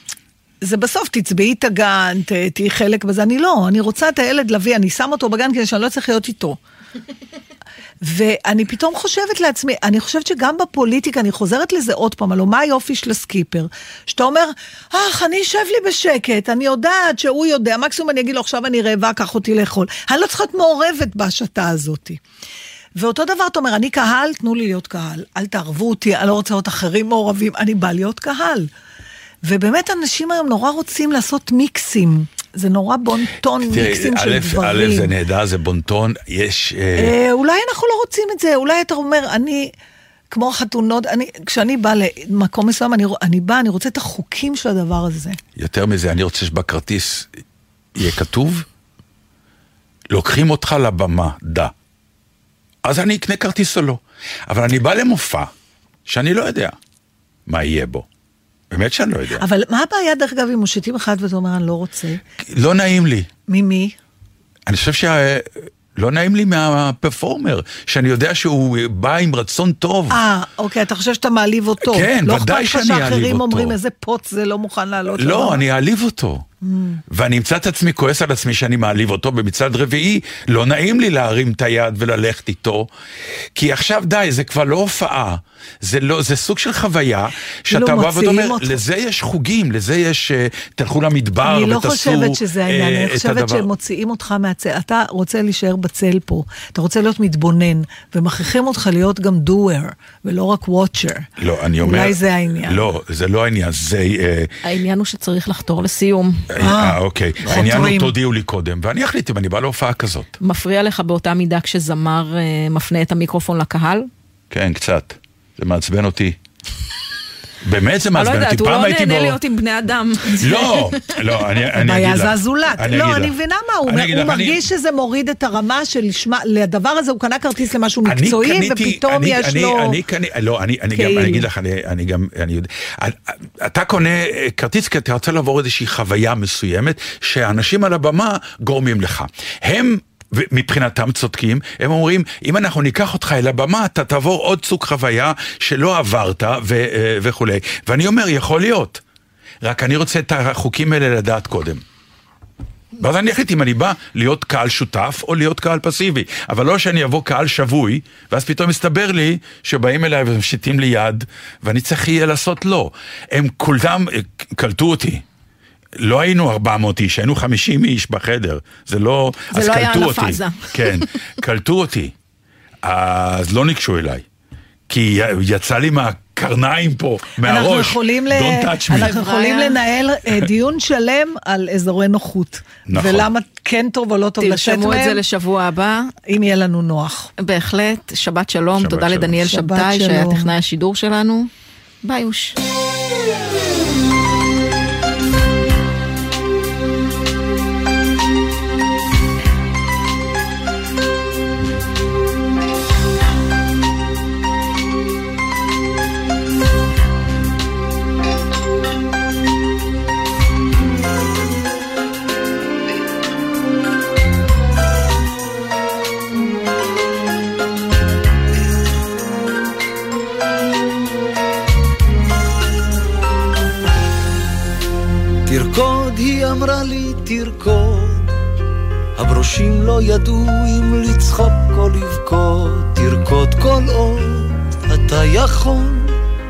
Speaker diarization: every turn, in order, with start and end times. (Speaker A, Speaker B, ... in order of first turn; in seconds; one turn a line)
Speaker A: 0.6-6.6
Speaker A: 8.0-22.2
Speaker A: 23.0-28.7
Speaker A: 29.4-35.1
Speaker B: 33.6-37.1
Speaker A: 37.0-39.7
Speaker A: 40.3-45.4
Speaker B: 45.6-47.3
Speaker B: 48.0-48.7
Speaker B: 50.1-51.7
Speaker B: 52.8-55.5
Speaker B: 56.1-56.8
Speaker B: 57.5-58.1
Speaker B: 58.7-59.5
Speaker A: 59.4-62.2
Speaker B: 62.4-63.3
Speaker A: 63.5-64.0
Speaker B: 64.7-70.2
Speaker A: 70.1-75.6
Speaker B: 71.8-73.8
Speaker B: 75.1-76.5
Speaker A: 76.6-77.0
Speaker B: 77.1-82.9
Speaker B: 83.5-93.7
Speaker A: 87.7-88.8
Speaker A: 91.5-101.3
Speaker B: 101.4-104.5
Speaker A: 101.8-102.9
Speaker C: 104.6-106.5
Speaker B: 106.5-110.3
Speaker A: 106.6-108.1
Speaker C: 110.4-114.1
Speaker B: 114.5-116.4
Speaker B: 117.6-119.4
Speaker C: 118.2-121.4
Speaker B: 120.3-124.6
Speaker A: 121.8-130.0
Speaker B: 128.1-149.0
Speaker A: 131.0-131.3
Speaker B: 149.6-151.8
Speaker B: 153.0-165.2
Speaker B: 166.0-172.2
Speaker C: 169.5-171.2
Speaker B: 172.8-174.2
Speaker B: 174.9-179.2
Speaker A: 177.4-185.2
Speaker C: 178.9-179.8
Speaker B: 182.9-183.3
Speaker C: 184.4-186.1
Speaker A: 186.3-187.3
Speaker C: 187.4-191.5
Speaker B: 188.8-189.4
Speaker A: 189.4-190.5
Speaker C: 192.0-192.6
Speaker D: 225.5-228.3
Speaker D: 229.2-236.1